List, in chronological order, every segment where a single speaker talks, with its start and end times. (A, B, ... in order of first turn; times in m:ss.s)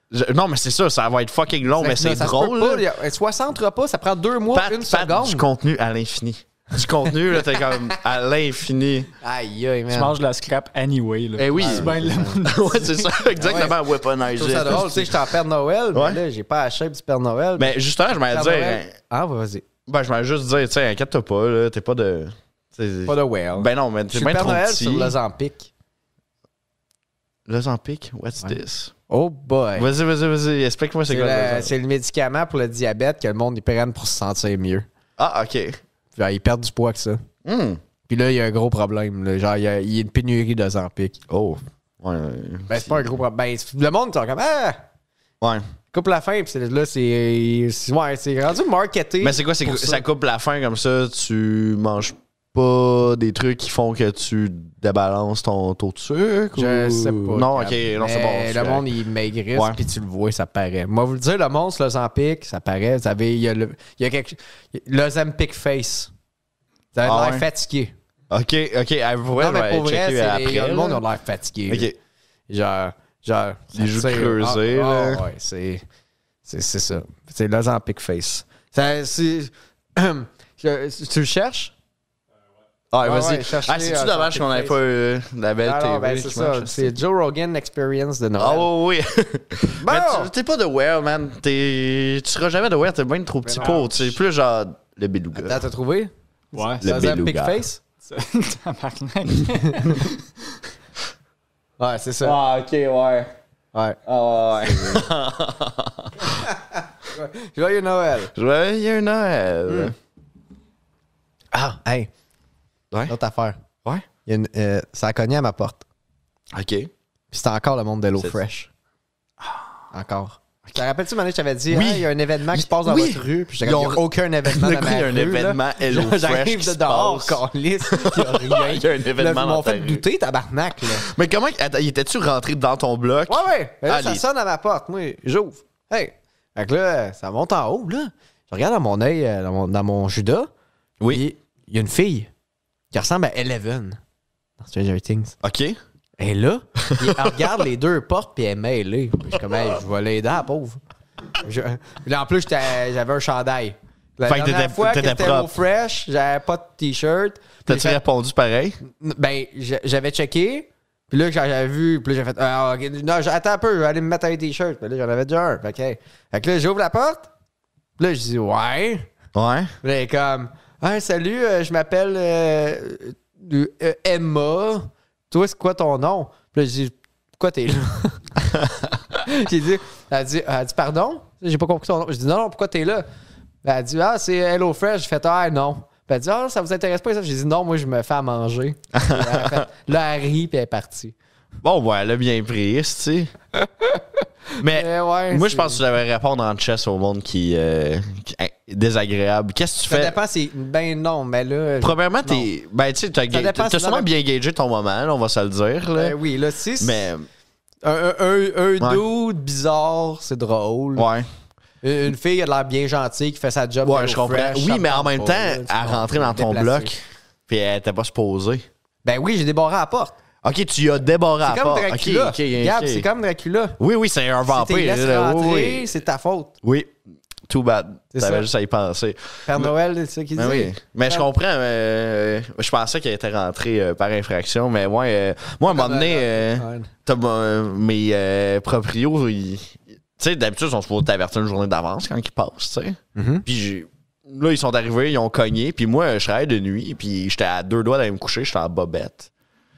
0:00.1-0:02.9 A
0:01.8-0:05.5 B
0:04.5-0:09.1 A
0:09.2-0:10.2 B
0:09.9-0:13.2 C
0:11.4-0:15.2 A
0:11.6-0:12.4 B
0:13.4-0:13.8 B
0:14.3-0:17.7 B
0:15.9-0:16.2 A
0:17.6-0:18.9 A
0:18.3-0:19.6 B
0:19.9-0:25.2 A
0:23.1-0:25.7 B
0:27.5-0:28.9 A
0:29.1-0:29.9 B
0:29.8-0:31.7 A
0:31.1-0:34.9 B
0:35.2-0:35.8 A
0:36.2-0:37.2 B
0:37.4-0:37.8 A
0:38.1-0:41.2 B
0:41.3-0:43.1 A
0:42.7-0:44.8 B
0:45.4-0:45.7 A
0:45.9-0:50.0 B
0:49.2-0:58.8 A
0:56.6-1:06.1 B
0:59.5-0:59.8 A
1:06.9-1:07.9 B
1:07.0-1:07.5 A
1:08.3-1:11.0 A
1:09.4-1:11.9 B
1:11.7-1:12.0 A
1:12.5-1:15.8 B
1:13.8-1:15.2 A
1:16.4-1:21.7 B
1:22.9-1:26.9 A
1:23.0-1:24.8 B
1:25.6-1:28.7 B
1:28.4-1:35.6 A
1:29.8-1:30.3 B
1:33.4-1:34.0 B
1:35.4-1:37.8 B
1:36.5-1:36.9 C
1:36.8-1:37.6 A
1:38.0-1:40.2 C
1:41.8-1:42.4 B
1:42.2-1:43.3 A
1:43.7-1:44.0 B
1:44.1-1:46.4 A
1:46.2-1:48.3 B
1:48.4-1:49.9 A
1:49.7-1:49.9 B
1:51.5-1:52.1 B
1:53.1-1:53.6 B
1:54.2-1:55.8 B
1:56.5-1:56.9 A
1:57.3-1:58.7 B
1:59.9-2:11.1 B
2:01.7-2:10.0 A
2:10.9-2:14.2 A
2:13.3-2:20.5 B
2:21.1-2:22.3 B
2:22.9-2:24.0 B
2:24.6-2:25.4 B
2:25.4-2:25.8 A
2:26.2-2:30.8 B
2:26.9-2:27.4 A
2:31.4-2:38.0 B
2:34.3-2:35.5 A
2:37.7-2:38.8 A
2:38.8-2:47.3 B
2:48.0-2:49.1 B
2:49.3-2:49.7 A
2:49.8-2:58.2 B
2:59.2-3:03.1 B
3:03.6-3:11.2 B
3:08.9-3:09.6 A
3:11.6-3:13.3 A
3:14.6-3:15.8 B
3:14.6-3:20.2 A
3:19.9-3:22.5 B
3:21.8-3:26.2 A
3:23.3-3:24.1 B
3:26.0-3:27.1 B
3:26.8-3:27.3 A
3:27.8-3:31.1 B
3:31.0-3:31.3 A
3:31.8-3:36.9 B
3:33.8-3:38.6 A
3:39.0-3:40.2 B
3:40.4-3:43.1 A
3:41.4-3:43.8 B
3:43.8-3:45.9 A
3:44.5-3:46.6 B
3:46.6-3:46.9 A
3:47.5-3:49.7 A
3:48.1-3:48.5 B
3:49.5-3:51.3 B
3:50.4-4:09.3 A
3:55.6-3:56.9 B
4:03.2-4:03.4 B